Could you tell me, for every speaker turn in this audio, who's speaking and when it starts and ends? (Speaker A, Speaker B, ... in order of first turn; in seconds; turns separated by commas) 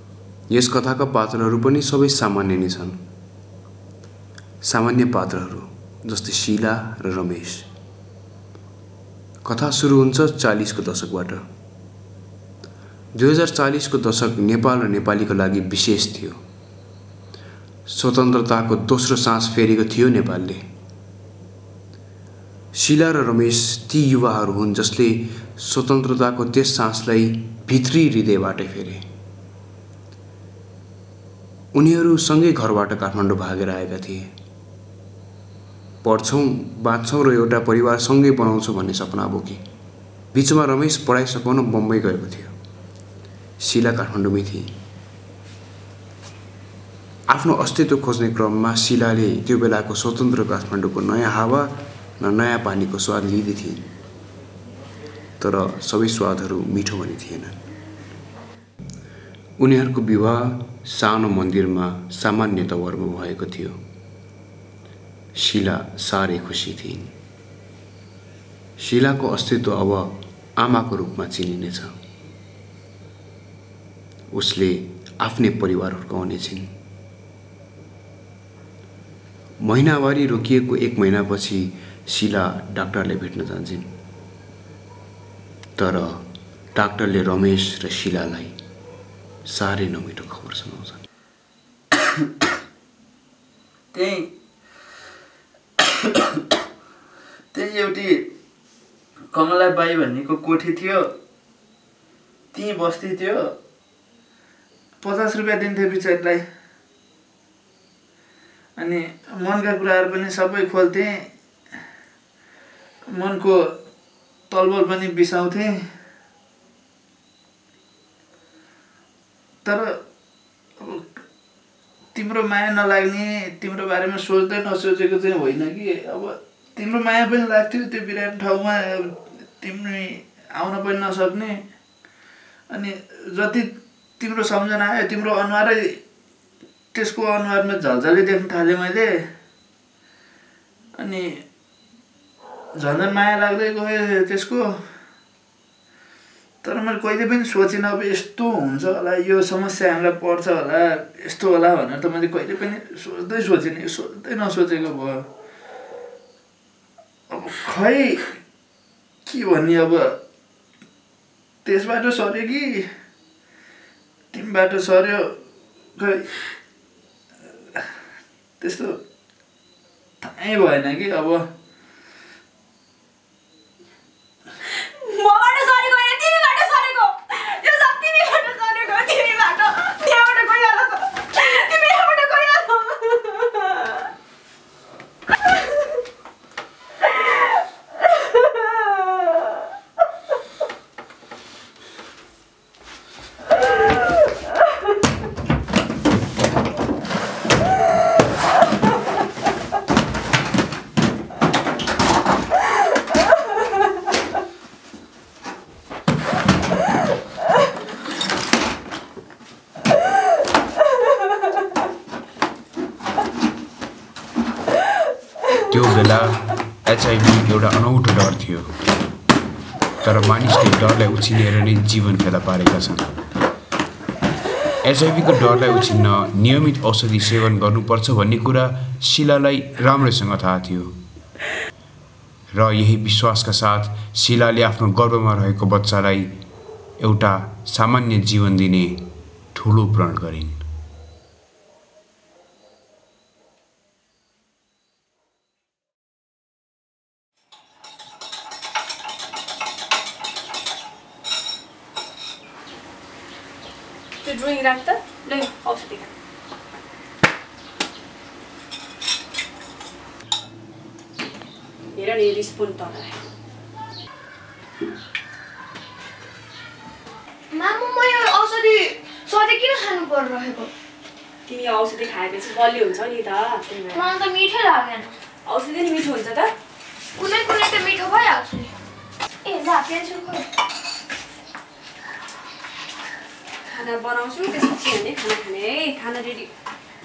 Speaker A: 0.5-3.0, Speaker A: 4.6-7.7, Speaker A: 9.4-11.4, Speaker A: 13.1-16.4, Speaker A: 17.9-20.6, Speaker A: 22.7-29.0, Speaker A: 31.7-34.3, Speaker A: 36.0-39.6, Speaker A: 40.3-42.5, Speaker A: 43.6-44.7, Speaker A: 47.3-53.8, Speaker A: 55.4-57.6, Speaker A: 59.6-63.8, Speaker A: 65.3-67.1, Speaker A: 68.8-71.9, Speaker A: 74.3-76.7, Speaker A: 79.6-83.9, Speaker A: 85.8-86.2, Speaker A: 86.7-88.5, Speaker A: 89.5-91.0, Speaker B: 93.9-94.3, Speaker B: 97.5-98.2, Speaker B: 99.3-101.1, Speaker B: 102.5-103.5, Speaker B: 105.0-106.4, Speaker B: 108.8-111.3, Speaker B: 113.1-113.5, Speaker B: 114.5-115.7, Speaker B: 119.6-119.9, Speaker B: 120.8-121.1, Speaker B: 122.1-131.6, Speaker B: 132.7-135.9, Speaker B: 136.9-139.1, Speaker B: 141.0-141.4, Speaker B: 142.8-144.7, Speaker B: 146.6-155.2, Speaker B: 157.3-158.3, Speaker B: 159.3-160.2, Speaker B: 161.6-162.9, Speaker B: 164.3-165.3, Speaker B: 166.0-166.3, Speaker B: 168.6-168.9, Speaker B: 170.2-171.4, Speaker C: 174.9-183.8, Speaker A: 215.7-218.7, Speaker A: 220.0-223.1, Speaker A: 224.8-230.9, Speaker A: 232.5-236.3, Speaker A: 237.0-239.0, Speaker A: 239.5-240.6, Speaker C: 254.2-256.1, Speaker C: 261.9-263.2, Speaker D: 267.5-270.7, Speaker C: 271.5-274.1, Speaker D: 273.9-275.1, Speaker C: 275.4-276.5, Speaker D: 277.1-278.7, Speaker D: 279.4-280.5, Speaker C: 283.7-286.5